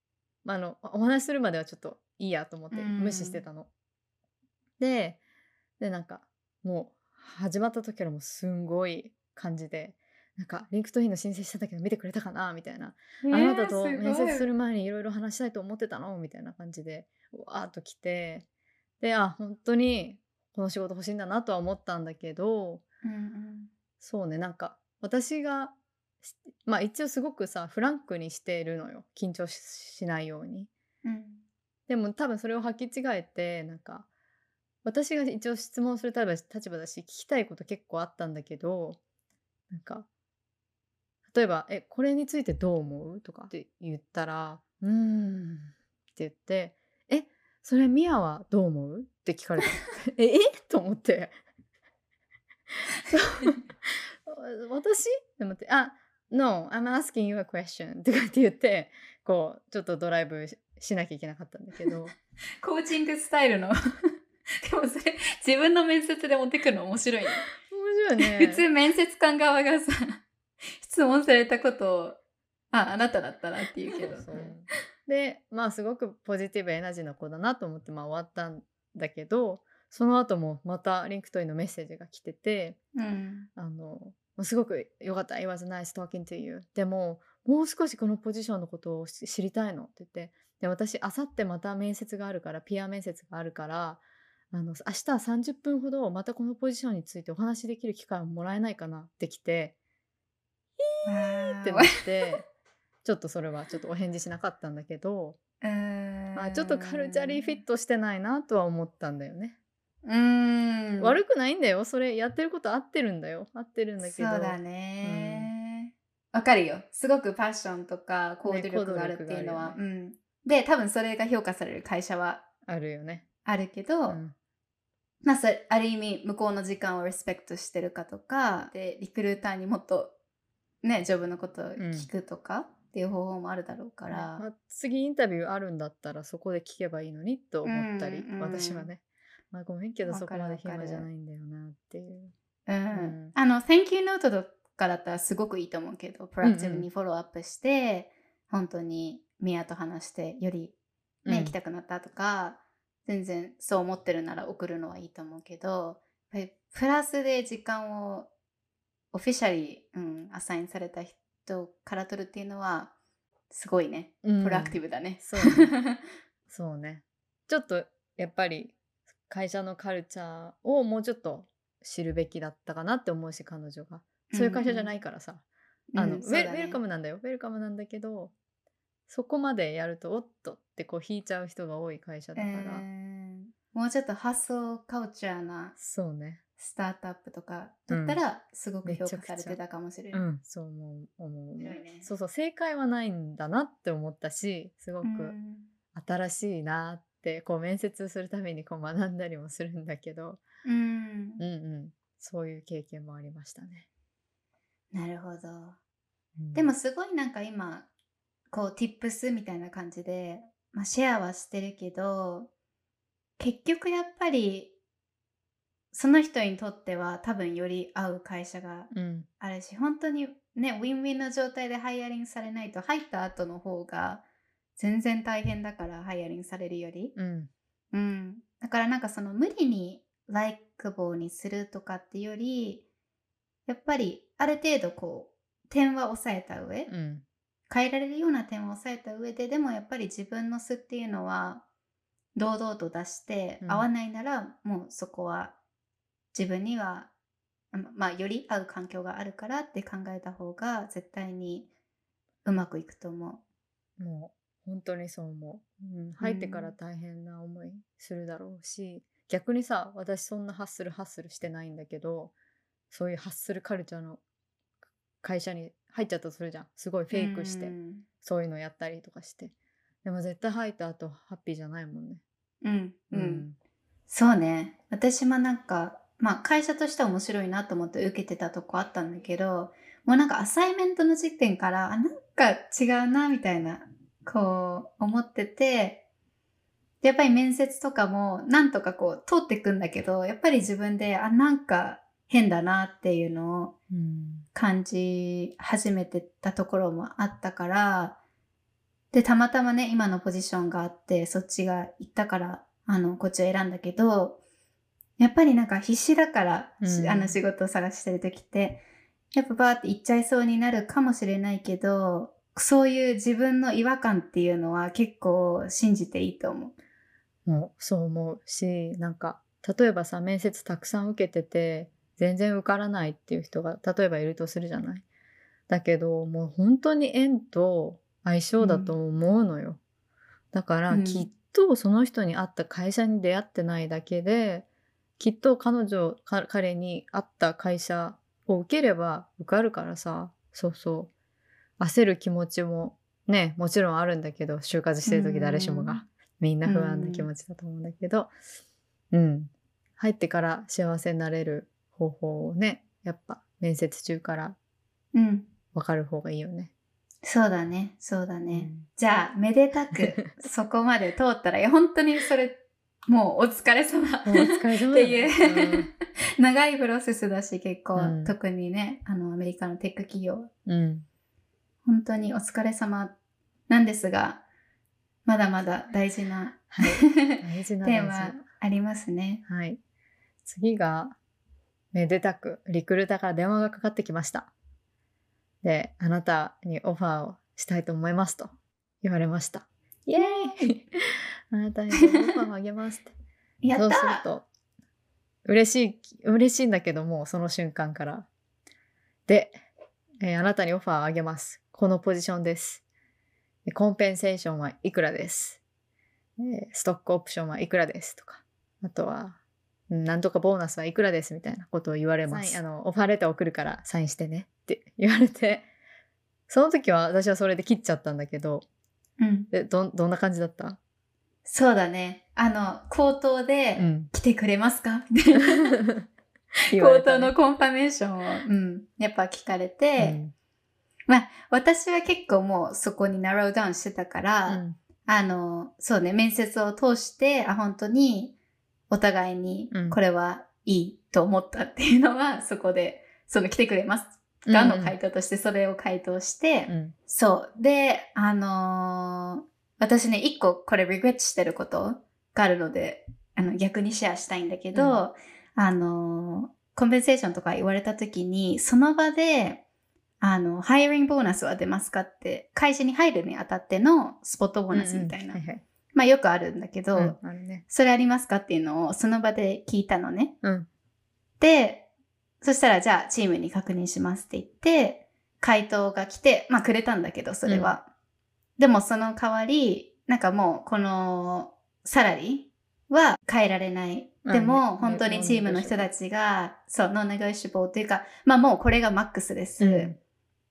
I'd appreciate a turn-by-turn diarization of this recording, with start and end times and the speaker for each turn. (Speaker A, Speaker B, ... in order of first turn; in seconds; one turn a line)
Speaker A: 0.5-3.7
Speaker B: 2.7-3.4
Speaker A: 4.8-5.2
Speaker A: 5.8-18.5
Speaker B: 13.2-14.5
Speaker A: 19.0-22.8
Speaker B: 23.0-23.7
Speaker A: 24.0-30.7
Speaker B: 31.0-31.4
Speaker A: 31.9-34.1
Speaker A: 34.8-39.0
Speaker A: 39.7-40.1
Speaker A: 41.3-51.4
Speaker B: 53.1-53.5
Speaker A: 53.1-62.1
Speaker B: 62.6-63.7
Speaker B: 64.6-67.5
Speaker A: 67.6-68.7
Speaker B: 68.2-70.2
Speaker B: 70.8-72.2
Speaker B: 72.7-74.5
Speaker A: 74.1-82.8
Speaker B: 83.0-83.5
Speaker A: 83.6-99.8
Speaker A: 100.8-102.5
Speaker B: 101.0-102.3
Speaker A: 103.0-105.4
Speaker B: 105.6-107.6
Speaker A: 106.3-109.6
Speaker B: 110.0-111.2
Speaker A: 111.0-115.5
Speaker B: 114.0-122.4
Speaker A: 118.5-119.8
Speaker A: 122.7-123.3
Speaker B: 123.5-124.2
Speaker A: 124.1-124.3
Speaker B: 125.2-130.1
Speaker B: 130.8-134.4
Speaker A: 131.8-132.1
Speaker A: 134.1-142.3
Speaker B: 137.7-138.9
Speaker B: 140.1-141.1
Speaker B: 142.7-150.7
Speaker A: 142.9-143.3
Speaker A: 146.4-146.9
Speaker A: 151.2-151.6
Speaker B: 151.3-158.3
Speaker B: 159.1-162.9
Speaker B: 163.5-166.0
Speaker A: 164.2-165.7
Speaker A: 166.5-168.8
Speaker A: 169.3-175.4
Speaker B: 174.3-174.9
Speaker B: 175.9-176.8
Speaker A: 176.0-178.3
Speaker A: 179.1-182.8
Speaker B: 182.4-185.8
Speaker A: 185.8-186.4
Speaker B: 186.6-190.2
Speaker A: 187.9-188.2
Speaker A: 188.8-189.6
Speaker A: 190.1-195.4
Speaker B: 191.6-192.1
Speaker B: 195.0-195.7
Speaker A: 195.9-200.4
Speaker B: 200.7-201.4
Speaker A: 201.4-203.9
Speaker B: 204.9-205.8
Speaker A: 206.4-206.7
Speaker B: 206.5-207.9
Speaker B: 208.5-212.5
Speaker B: 213.4-214.7
Speaker B: 215.9-224.2
Speaker A: 218.9-219.3
Speaker B: 224.8-227.1
Speaker A: 227.2-227.5
Speaker B: 227.9-232.8
Speaker B: 233.7-236.9
Speaker A: 236.9-237.2
Speaker B: 237.7-241.6
Speaker B: 242.3-245.6
Speaker B: 246.3-247.1
Speaker B: 247.7-251.7
Speaker B: 252.4-253.4
Speaker A: 254.0-262.3
Speaker B: 256.2-256.7
Speaker A: 262.9-264.2
Speaker A: 265.2-272.2
Speaker B: 267.1-268.1
Speaker B: 272.6-273.4
Speaker A: 273.1-273.6
Speaker B: 274.1-286.0
Speaker B: 287.0-293.7
Speaker A: 293.9-294.5
Speaker B: 294.6-298.2
Speaker B: 299.1-304.4
Speaker B: 305.2-316.7
Speaker A: 306.8-307.4
Speaker A: 317.5-325.1
Speaker A: 325.7-329.8
Speaker B: 328.6-328.9
Speaker A: 330.5-334.7
Speaker B: 330.9-331.3
Speaker A: 335.2-341.1
Speaker A: 341.8-348.3
Speaker B: 345.1-346.0
Speaker B: 346.6-347.3
Speaker A: 349.1-354.6
Speaker B: 355.1-355.5
Speaker A: 355.7-356.7
Speaker B: 357.2-370.5
Speaker A: 358.5-358.9
Speaker A: 364.2-365.9
Speaker A: 368.0-368.3
Speaker A: 370.7-371.1
Speaker B: 371.9-373.1
Speaker B: 373.7-374.4
Speaker B: 375.3-379.4
Speaker A: 376.7-378.4
Speaker A: 379.5-379.8
Speaker A: 380.4-381.2
Speaker A: 381.9-384.5
Speaker A: 385.6-393.1
Speaker B: 390.2-390.6
Speaker B: 391.9-392.2
Speaker B: 393.6-394.3
Speaker A: 393.8-394.5
Speaker A: 395.4-398.3
Speaker A: 399.3-399.6
Speaker A: 400.2-402.8
Speaker A: 403.7-405.6
Speaker A: 406.4-409.4
Speaker A: 409.9-415.7
Speaker B: 412.3-412.6
Speaker A: 416.5-418.7
Speaker B: 419.2-419.5
Speaker A: 419.5-420.8
Speaker B: 421.5-425.8
Speaker A: 423.8-424.1
Speaker A: 425.7-426.1
Speaker A: 426.7-427.3
Speaker B: 426.7-430.2
Speaker A: 430.0-430.3
Speaker B: 431.1-438.3
Speaker A: 434.5-434.8
Speaker B: 438.9-459.6
Speaker A: 439.7-440.0
Speaker A: 444.5-444.9
Speaker A: 446.7-446.9
Speaker A: 454.7-455.0
Speaker B: 460.2-465.4
Speaker A: 464.7-465.6
Speaker B: 465.9-470.3
Speaker A: 466.9-467.6
Speaker A: 470.4-470.7
Speaker B: 471.4-471.9
Speaker B: 472.4-477.9
Speaker A: 477.5-477.7
Speaker B: 478.6-489.9
Speaker A: 484.2-485.9
Speaker A: 489.6-490.0